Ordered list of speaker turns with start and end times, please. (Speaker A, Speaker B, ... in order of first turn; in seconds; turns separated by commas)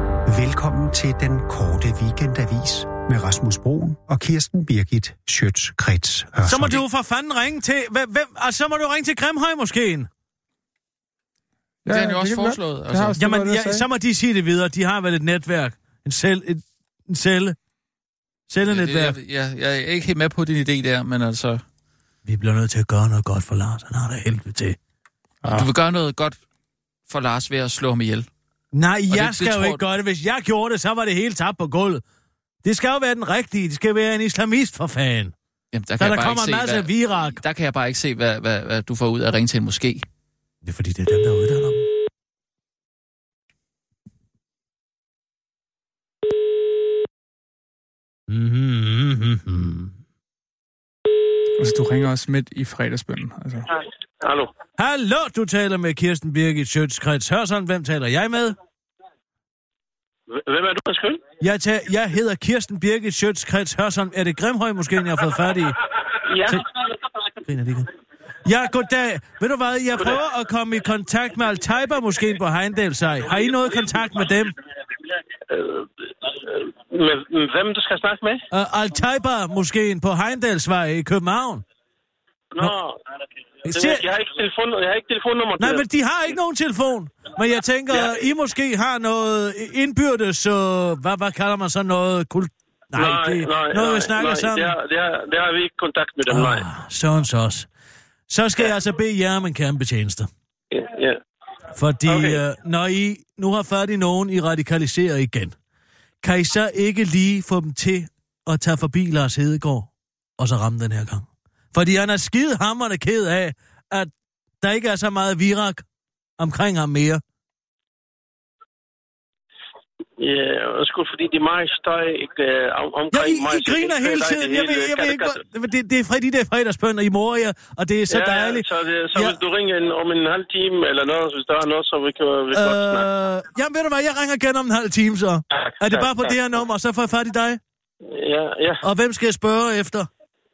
Speaker A: 0.3-6.8, Speaker B: 6.4-10.1, Speaker C: 11.8-13.8, Speaker D: 11.9-13.2, Speaker B: 13.2-17.6, Speaker B: 18.5-19.2, Speaker D: 18.6-21.6, Speaker B: 22.2-24.8, Speaker D: 25.5-26.4, Speaker D: 27.1-28.3, Speaker B: 28.7-32.0, Speaker D: 29.1-29.8, Speaker B: 32.6-35.3, Speaker D: 35.7-40.0, Speaker B: 36.0-37.4, Speaker B: 40.6-41.9, Speaker B: 48.3-49.9, Speaker C: 51.6-53.6, Speaker E: 54.2-54.5, Speaker B: 54.8-58.5, Speaker E: 60.3-61.2, Speaker B: 61.4-65.8, Speaker E: 66.3-66.6, Speaker B: 67.5-67.9, Speaker B: 68.4-74.5, Speaker E: 75.5-78.4, Speaker B: 78.5-81.6, Speaker E: 82.5-83.0, Speaker B: 83.6-84.1, Speaker E: 83.7-85.8, Speaker B: 85.6-94.8, Speaker E: 92.9-96.6, Speaker B: 96.2-97.7, Speaker B: 98.3-100.3, Speaker E: 100.7-101.2, Speaker B: 101.7-105.5, Speaker E: 102.1-102.4, Speaker B: 106.2-114.1, Speaker B: 114.6-115.8, Speaker B: 116.4-117.2, Speaker E: 120.2-125.4, Speaker B: 123.1-129.4, Speaker E: 128.1-133.1, Speaker B: 132.5-137.6, Speaker E: 135.6-136.2, Speaker E: 138.0-138.8, Speaker B: 138.8-140.1